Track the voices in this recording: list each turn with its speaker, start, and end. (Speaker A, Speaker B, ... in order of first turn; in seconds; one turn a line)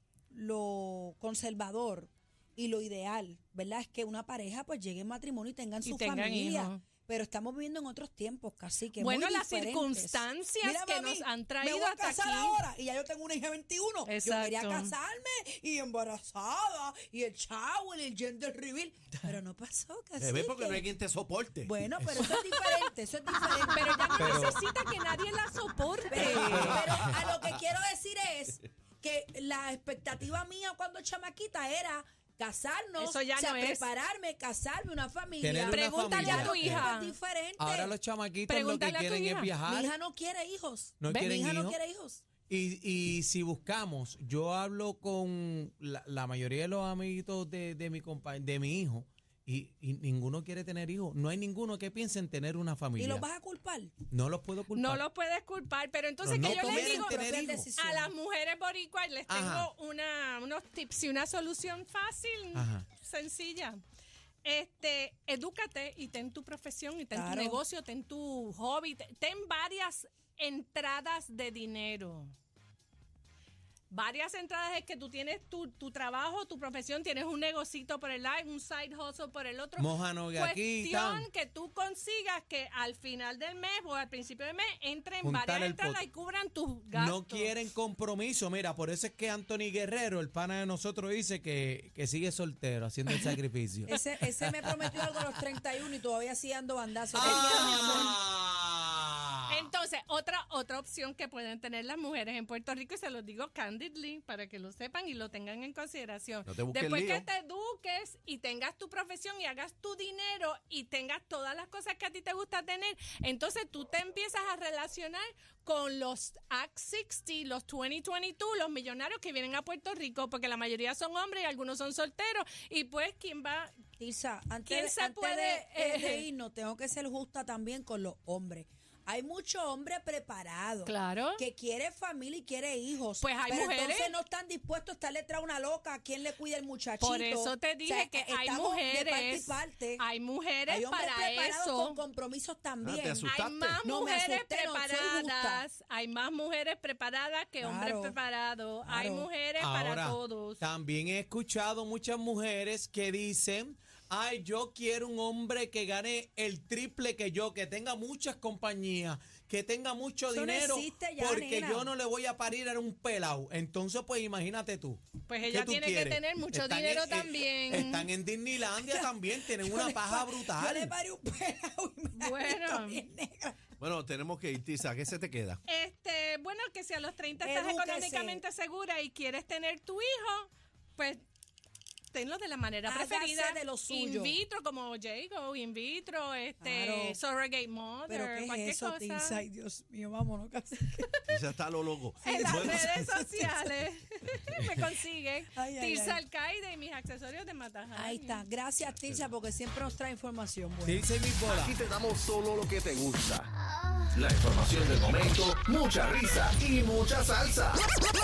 Speaker A: 0.3-20.9
Speaker B: 5.8-6.8
Speaker B: 9.0-12.6
Speaker B: 14.1-14.9
Speaker C: 20.2-21.8
Speaker A: 21.6-24.6
Speaker D: 22.0-22.5
Speaker B: 23.7-26.6
Speaker D: 24.2-24.6
Speaker A: 26.1-38.0
Speaker C: 26.1-27.6
Speaker D: 26.3-27.2
Speaker B: 33.0-33.9
Speaker D: 35.4-36.9
Speaker B: 35.7-37.1
Speaker D: 37.6-39.9
Speaker B: 38.5-39.5
Speaker A: 39.6-42.2
Speaker D: 41.0-41.8
Speaker D: 42.5-53.2
Speaker A: 53.0-53.9
Speaker D: 54.1-55.0
Speaker B: 54.8-63.8
Speaker D: 56.2-57.7
Speaker A: 56.4-58.1
Speaker D: 59.3-59.7
Speaker D: 62.5-62.9
Speaker B: 64.4-72.3
Speaker A: 67.1-67.6
Speaker B: 73.9-87.5
Speaker D: 79.8-81.3
Speaker D: 85.2-86.0
Speaker D: 86.9-95.4
Speaker A: 93.9-98.2
Speaker D: 97.1-99.7
Speaker B: 97.2-98.2
Speaker B: 99.5-123.8
Speaker C: 106.5-107.3
Speaker A: 124.0-140.1
Speaker B: 124.7-126.2
Speaker B: 130.8-131.4
Speaker B: 133.2-134.1
Speaker B: 137.0-142.0
Speaker A: 140.7-145.6
Speaker C: 142.8-143.8
Speaker B: 143.2-150.6
Speaker A: 147.6-148.2
Speaker A: 148.8-149.3
Speaker D: 149.6-170.9
Speaker A: 160.3-161.9
Speaker B: 165.3-168.1
Speaker A: 168.7-173.7
Speaker B: 172.2-173.0
Speaker C: 173.8-175.6
Speaker B: 175.7-181.2
Speaker A: 177.4-178.4
Speaker B: 182.1-189.4
Speaker A: 182.8-184.4
Speaker A: 186.6-187.2
Speaker A: 188.1-191.3
Speaker C: 191.3-192.9
Speaker B: 192.2-198.5
Speaker A: 192.2-193.7
Speaker A: 195.6-196.2
Speaker A: 197.9-201.1
Speaker C: 198.9-199.3
Speaker D: 200.9-201.8
Speaker E: 201.5-203.5
Speaker E: 204.1-207.8